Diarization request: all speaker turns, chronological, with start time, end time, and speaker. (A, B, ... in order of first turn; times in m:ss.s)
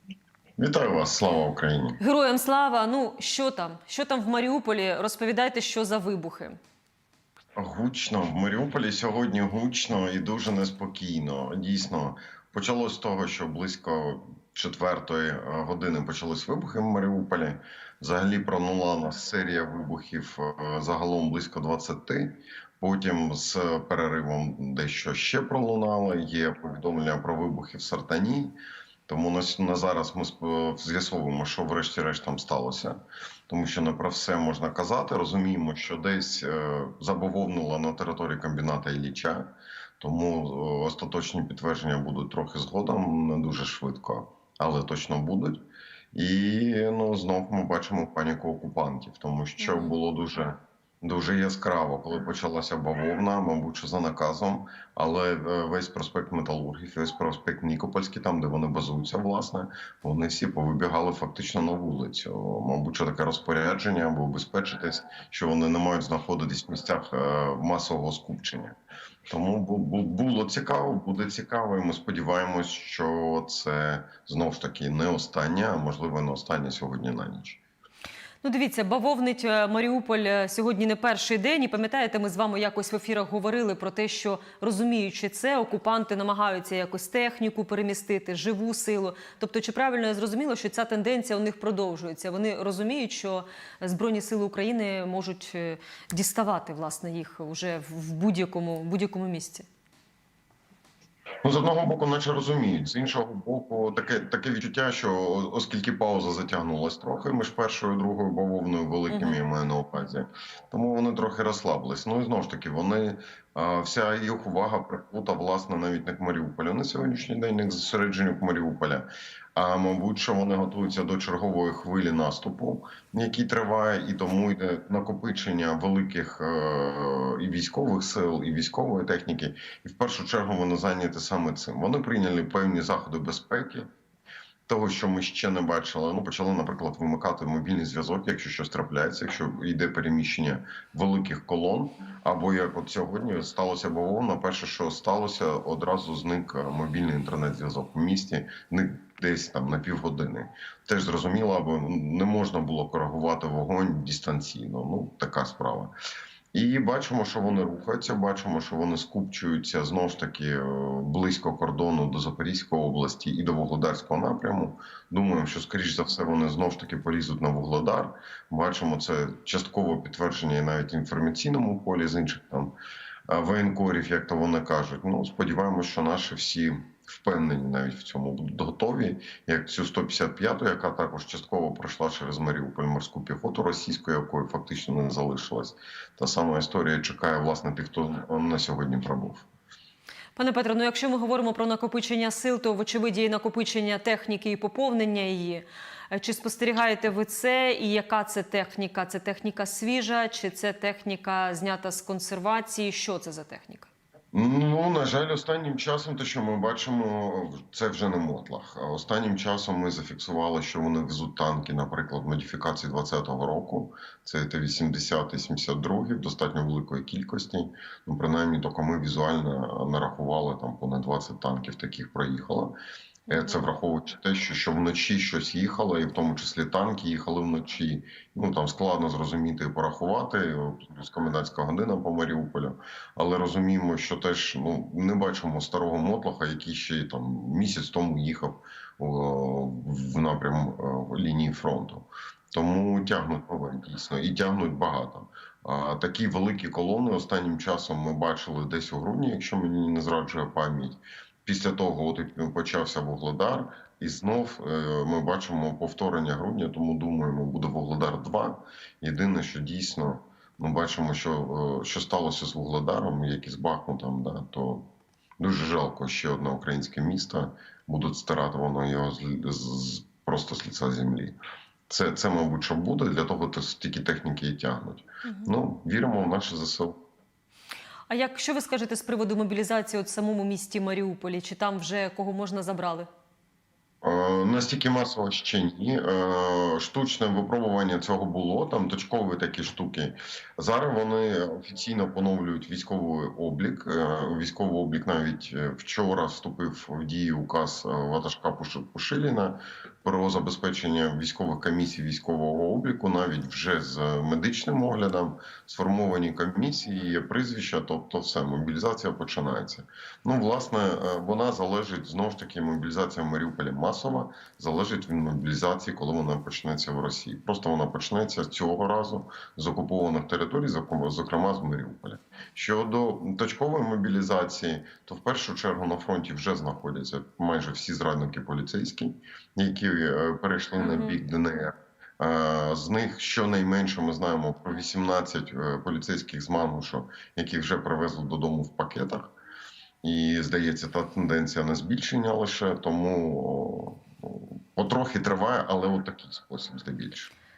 0:00.6-0:02.0 A
0:02.0-0:06.6 B
0:07.6-0:28.6 A
0:29.1-0:33.0 A
0:33.5-0:39.5 A
0:40.0-1:08.8 A
0:49.6-0:50.0 B
1:09.3-1:17.6 A
1:18.4-1:39.7 B
1:41.4-2:13.9 A
1:49.1-1:49.4 B
2:14.7-2:35.9 A
2:36.5-2:52.7 A
2:53.3-3:09.5 A
3:10.4-3:23.9 B
3:24.3-3:42.7 A
3:43.3-4:24.8 A
3:43.3-3:43.6 B
4:25.4-4:31.4 A
4:31.9-4:37.0 A
4:35.2-4:35.5 B
4:38.1-4:43.1 B
4:44.0-5:39.3 A
5:30.8-5:31.2 B
5:40.0-5:47.3 A